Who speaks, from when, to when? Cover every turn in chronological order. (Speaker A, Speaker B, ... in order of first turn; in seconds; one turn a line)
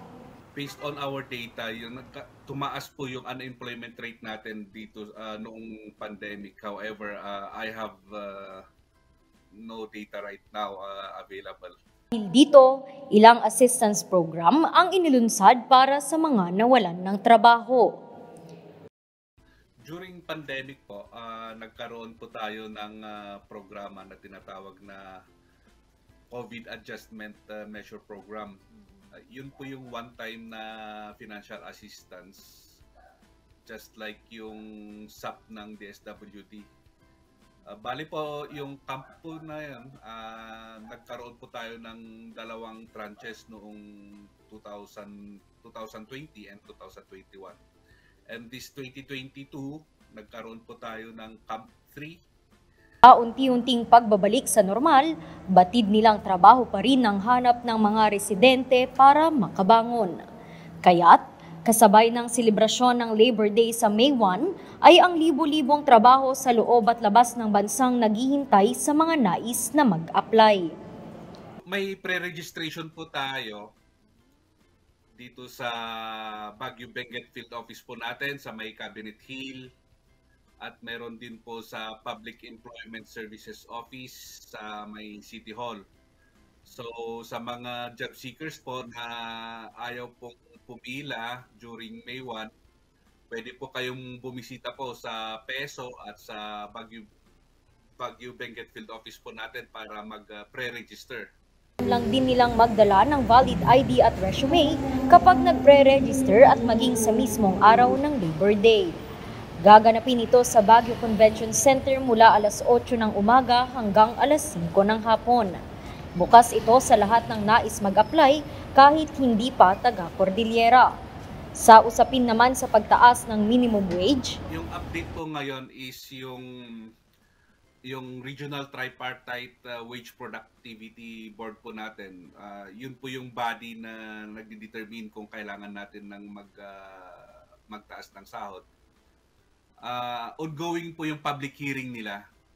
Speaker A: 0.5-8.6
Speaker A: 9.6-11.8
Speaker B: 12.1-17.9
Speaker A: 19.9-25.0
Speaker A: 26.3-28.6
Speaker A: 29.1-32.4
Speaker A: 33.6-36.7
Speaker A: 37.6-43.8
Speaker A: 44.4-47.6
Speaker A: 48.3-52.2
Speaker B: 53.0-60.2
Speaker B: 60.8-70.7
Speaker A: 71.7-73.6
Speaker A: 75.1-79.6
Speaker A: 80.6-85.8
Speaker A: 86.7-92.5
Speaker A: 93.3-97.1
Speaker A: 98.0-101.2
Speaker B: 101.8-109.0
Speaker B: 109.6-115.6
Speaker B: 116.2-120.9
Speaker B: 121.5-124.4
Speaker A: 124.5-126.5
Speaker A: 127.9-138.6
Speaker A: 139.8-142.2